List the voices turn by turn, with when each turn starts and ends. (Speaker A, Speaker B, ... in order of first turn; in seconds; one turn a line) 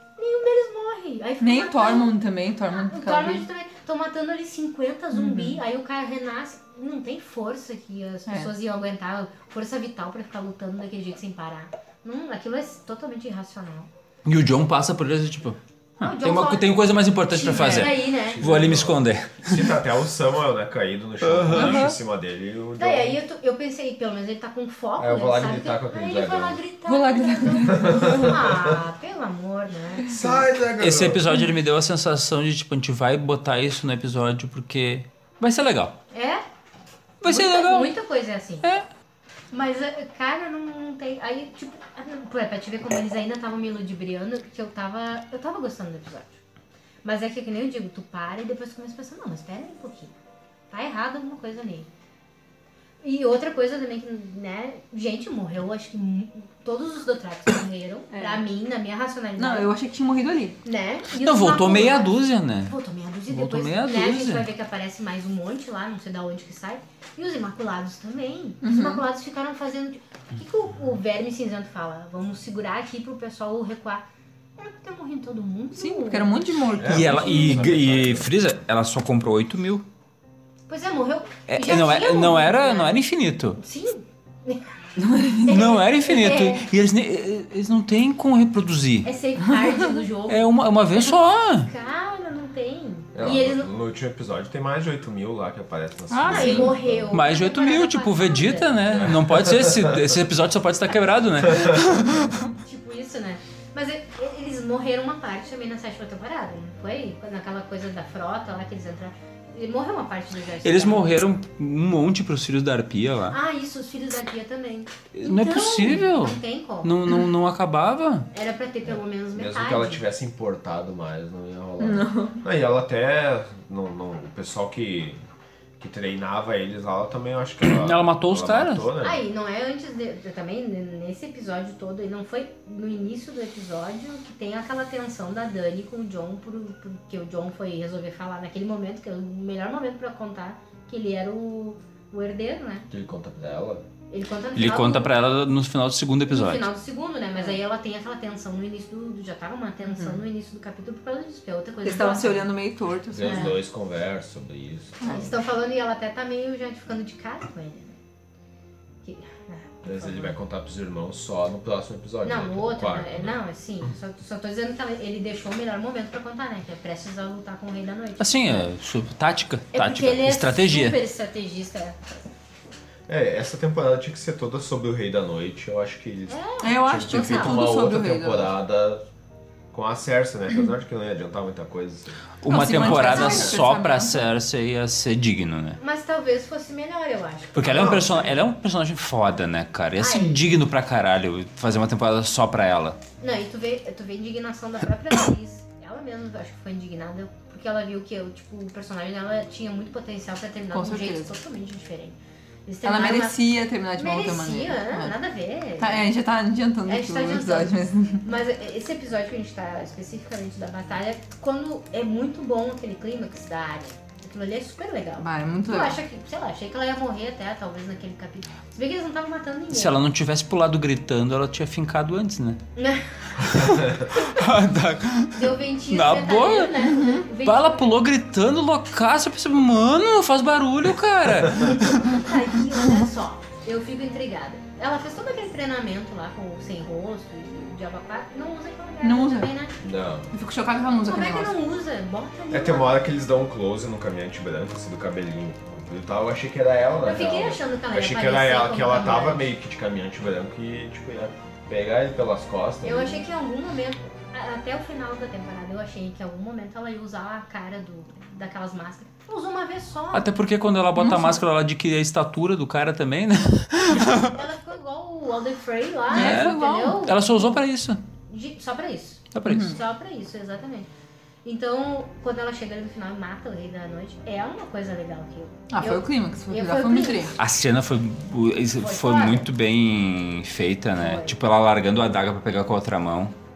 Speaker A: 0.2-2.1
Speaker B: 1.4-3.5
Speaker A: 2.7-13.9
Speaker B: 5.1-5.6
Speaker B: 8.3-8.5
Speaker C: 14.2-19.7
Speaker A: 16.0-18.4
Speaker D: 17.8-23.2
Speaker B: 21.5-21.9
Speaker A: 22.8-30.1
Speaker D: 25.0-26.6
Speaker B: 26.9-28.4
Speaker D: 27.7-28.8
Speaker D: 30.1-31.4
Speaker C: 30.8-36.0
Speaker A: 36.1-36.4
Speaker C: 37.2-37.9
Speaker A: 37.2-38.6
Speaker A: 39.5-46.4
Speaker A: 47.0-50.1
Speaker A: 50.7-51.9
Speaker A: 53.0-59.7
Speaker B: 58.1-58.4
Speaker B: 59.4-60.6
Speaker A: 60.6-62.1
Speaker C: 61.2-62.7
Speaker A: 62.6-74.0
Speaker C: 63.3-64.5
Speaker B: 68.6-69.0
Speaker A: 74.6-76.3
Speaker B: 75.8-77.6
Speaker D: 76.7-78.3
Speaker C: 76.8-79.8
Speaker A: 80.7-83.0
Speaker C: 81.5-83.6
Speaker A: 83.6-84.7
Speaker B: 85.0-85.6
Speaker A: 85.4-86.7
Speaker C: 85.5-89.1
Speaker A: 89.0-93.7
Speaker B: 89.6-90.0
Speaker C: 90.3-91.7
Speaker D: 93.1-97.1
Speaker B: 96.1-96.6
Speaker A: 96.2-98.8
Speaker C: 97.1-102.5
Speaker D: 98.9-100.1
Speaker D: 101.4-102.0
Speaker A: 102.6-111.2
Speaker C: 110.6-113.4
Speaker A: 113.3-116.9
Speaker C: 115.1-118.3
Speaker A: 118.3-120.0
Speaker D: 118.9-125.2
Speaker B: 121.8-122.4
Speaker D: 125.8-129.2
Speaker C: 127.6-128.9
Speaker A: 129.0-142.9
Speaker D: 142.9-143.8
Speaker A: 144.1-145.1
Speaker C: 144.6-146.7
Speaker A: 146.3-152.5
Speaker B: 149.8-150.2
Speaker B: 151.8-153.5
Speaker D: 153.1-155.3
Speaker A: 153.2-153.6
Speaker B: 155.0-155.3
Speaker A: 155.1-158.0
Speaker A: 159.0-160.3
Speaker D: 159.8-163.3
Speaker A: 162.2-168.6
Speaker C: 168.2-171.0
Speaker A: 169.7-172.2
Speaker D: 173.1-179.0
Speaker A: 176.3-177.7
Speaker B: 176.6-178.5
Speaker D: 179.7-182.2
Speaker C: 182.4-185.8
Speaker B: 182.5-184.3
Speaker A: 182.8-183.5
Speaker A: 185.8-188.3
Speaker C: 187.6-193.0
Speaker D: 187.6-188.4
Speaker A: 190.0-190.4
Speaker A: 193.2-203.4
Speaker B: 200.7-201.3
Speaker B: 202.8-205.1
Speaker A: 203.9-206.1
Speaker B: 205.8-208.2
Speaker A: 206.8-220.0
Speaker B: 215.2-216.0
Speaker C: 219.7-222.6
Speaker A: 222.8-223.6
Speaker C: 223.4-226.7
Speaker A: 225.3-228.0
Speaker B: 226.8-227.2
Speaker C: 227.4-232.2
Speaker A: 232.1-239.7
Speaker B: 239.0-239.5
Speaker D: 239.8-240.3
Speaker B: 240.3-241.6
Speaker A: 241.0-243.0
Speaker D: 242.5-253.2
Speaker A: 247.0-249.5
Speaker A: 252.8-260.3
Speaker C: 260.1-264.3
Speaker B: 261.0-261.4
Speaker A: 264.0-267.6
Speaker B: 266.1-267.0
Speaker C: 266.1-268.0
Speaker A: 268.3-270.9
Speaker C: 269.3-269.8
Speaker B: 269.4-269.8
Speaker A: 271.4-277.4
Speaker B: 275.7-277.4
Speaker C: 277.4-283.3
Speaker A: 278.8-279.5
Speaker A: 280.9-281.4